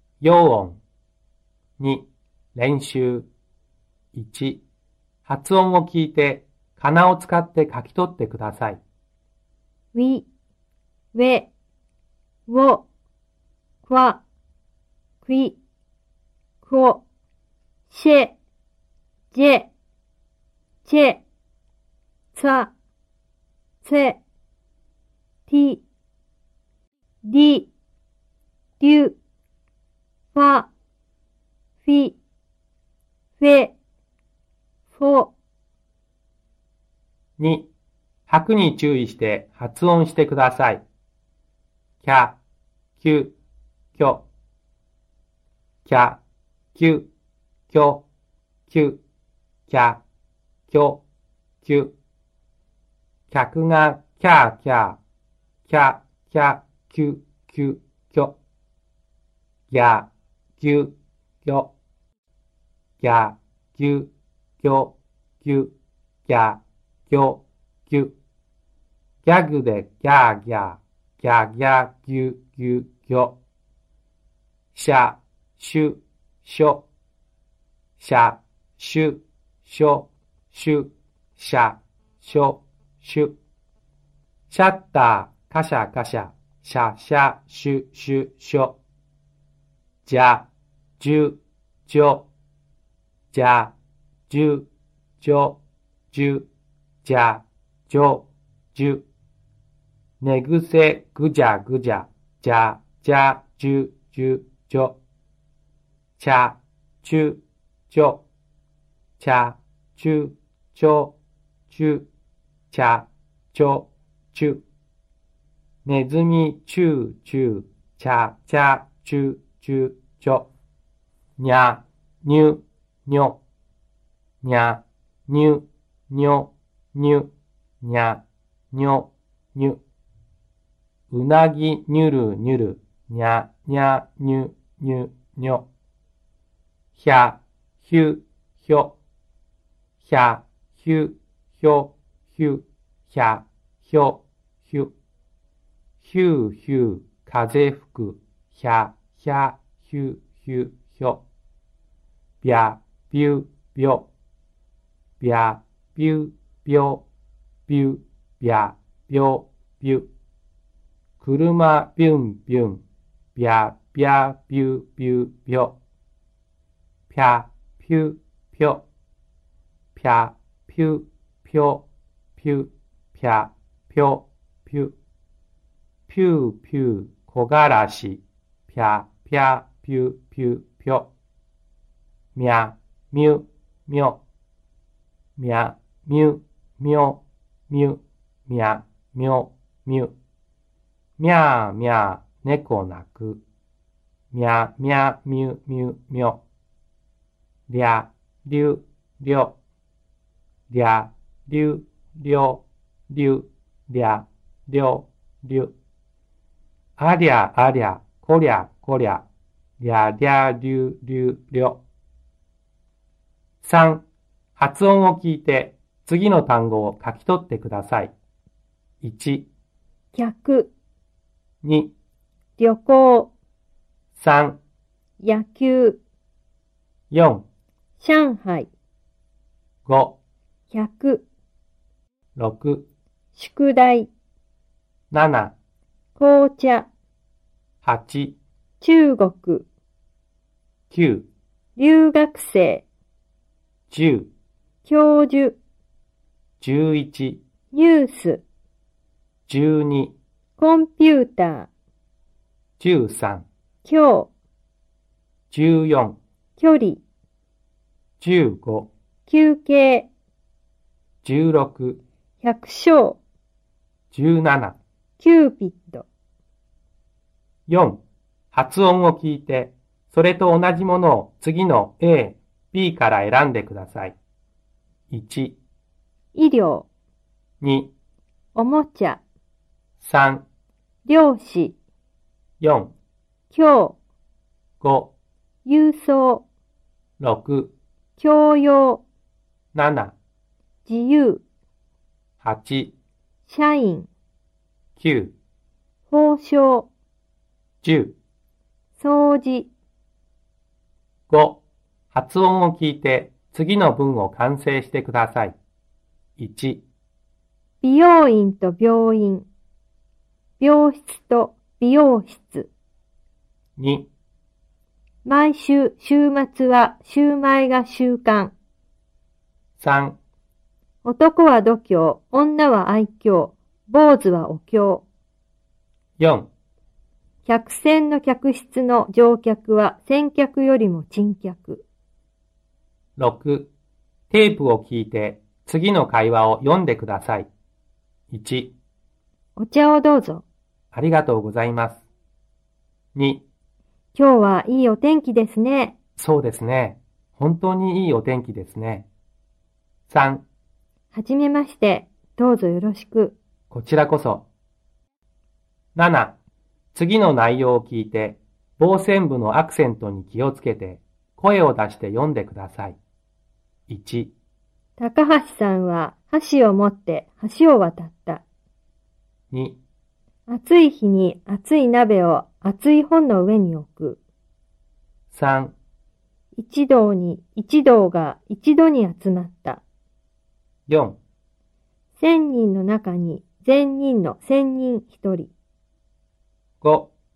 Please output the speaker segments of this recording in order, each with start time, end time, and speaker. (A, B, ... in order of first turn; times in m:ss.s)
0:00.2-0:00.8 A
0:01.8-0:03.3 A
0:04.1-0:04.6 A
0:05.2-0:08.8 A
0:09.9-0:10.3 B
0:11.1-0:11.5 B
0:12.5-0:12.9 B
0:13.8-0:14.2 B
0:15.2-0:15.6 B
0:16.6-0:17.0 B
0:17.9-0:18.4 B
0:19.3-0:19.7 B
0:20.8-0:21.2 B
0:22.3-0:22.7 B
0:23.8-0:24.2 B
0:25.5-0:25.8 B
0:27.2-0:27.7 B
0:28.8-0:29.2 B
0:30.3-0:30.7 B
0:31.8-0:32.2 B
0:33.4-0:33.8 B
0:34.9-0:35.3 B
0:37.4-0:37.7 A
0:38.3-0:40.8 A
0:42.0-0:42.4 A
0:43.0-0:43.4 A
0:44.0-0:44.3 A
0:45.8-0:46.2 A
0:46.8-0:47.1 A
0:47.7-0:48.0 A
0:48.7-0:49.0 A
0:49.7-0:50.0 A
0:50.7-0:51.0 A
0:51.6-0:52.0 A
0:53.3-0:55.0 A
0:55.7-0:58.4 A
0:59.7-1:00.1 A
1:00.6-1:01.7 A
1:03.0-1:05.7 A
1:06.3-1:08.2 A
1:09.2-1:13.4 A
1:14.7-1:16.9 A
1:18.0-1:23.4 A
1:24.5-1:28.8 A
1:30.0-1:30.5 A
1:31.0-1:32.3 A
1:33.3-1:33.7 A
1:34.3-1:34.7 A
1:35.2-1:35.6 A
1:36.1-1:36.5 A
1:37.0-1:39.0 A
1:40.2-1:45.0 A
1:46.2-1:48.2 A
1:49.2-1:51.2 A
1:51.7-1:52.1 A
1:52.7-1:54.6 A
1:55.8-2:00.5 A
2:01.4-2:03.4 A
2:04.4-2:09.8 A
2:11.1-2:15.7 A
2:17.0-2:19.0 A
2:20.0-2:24.9 A
2:26.0-2:31.2 A
2:32.4-2:34.1 A
2:35.2-2:37.0 A
2:37.7-2:40.1 A
2:41.2-2:42.8 A
2:43.4-2:45.8 A
2:47.1-2:48.8 A
2:50.0-2:51.8 A
2:52.4-2:55.0 A
2:56.1-3:01.1 A
3:02.4-3:04.2 A
3:05.4-3:10.2 A
3:11.2-3:13.4 A
3:14.3-3:16.4 A
3:17.7-3:19.6 A
3:20.7-3:25.7 A
3:27.0-3:29.2 A
3:29.8-3:31.8 A
3:33.6-3:34.0 A
3:34.6-3:38.1 A
3:39.0-3:39.5 A
3:40.1-3:40.7 B
3:41.6-3:41.9 A
3:42.6-3:43.3 B
3:44.2-3:44.6 A
3:45.2-3:46.0 B
3:47.1-3:47.5 A
3:48.0-3:48.7 B
3:49.9-3:50.2 A
3:50.7-3:51.3 B
3:52.4-3:52.9 A
3:53.4-3:54.1 B
3:55.1-3:55.6 A
3:56.2-3:56.9 B
3:57.8-3:58.4 A
3:58.8-3:59.7 B
4:00.9-4:01.3 A
4:01.8-4:02.8 B
4:03.9-4:04.3 A
4:04.8-4:05.6 B
4:06.6-4:07.4 A
4:07.7-4:08.4 B
4:09.5-4:10.2 A
4:10.6-4:11.7 B
4:12.8-4:13.5 A
4:13.8-4:14.3 B
4:15.5-4:16.2 A
4:16.6-4:17.0 B
4:18.2-4:18.9 A
4:19.3-4:20.1 B
4:21.2-4:22.0 A
4:22.4-4:23.2 B
4:24.1-4:24.8 A
4:25.2-4:26.1 B
4:27.7-4:34.2 A
4:35.1-4:35.6 A
4:36.3-4:36.9 B
4:37.6-4:37.9 A
4:38.6-4:39.2 B
4:40.0-4:40.4 A
4:41.1-4:41.8 B
4:42.6-4:42.9 A
4:43.5-4:44.0 B
4:44.8-4:45.1 A
4:45.6-4:46.4 B
4:47.2-4:47.7 A
4:48.2-4:49.0 B
4:49.7-4:50.2 A
4:50.8-4:51.4 B
4:52.4-4:53.0 A
4:53.5-4:54.1 B
4:55.0-4:55.4 A
4:56.1-4:56.9 B
4:57.8-4:58.2 A
4:59.0-4:59.7 B
5:01.3-5:05.6 A
5:06.4-5:06.9 A
5:07.8-5:09.5 B
5:10.6-5:12.7 B
5:13.8-5:14.1 A
5:15.2-5:18.5 B
5:19.8-5:20.2 A
5:21.0-5:25.0 B
5:26.2-5:26.5 A
5:27.4-5:31.8 B
5:33.2-5:33.7 A
5:34.3-5:37.5 A
5:38.3-5:38.8 A
5:39.6-5:40.4 B
5:40.9-5:42.1 A
5:43.2-5:43.5 A
5:44.1-5:46.0 B
5:46.2-5:49.1 A
5:50.1-5:50.4 A
5:51.1-5:53.4 B
5:53.7-5:54.5 A
5:56.0-5:56.4 A
5:56.9-6:03.0 A
6:03.9-6:04.3 A
6:05.0-6:08.4 B
6:09.5-6:09.8 A
6:10.5-6:14.2 B
6:15.3-6:15.8 A
6:16.6-6:19.8 B
6:20.9-6:21.2 A
6:22.2-6:25.5 B
6:26.8-6:27.1 A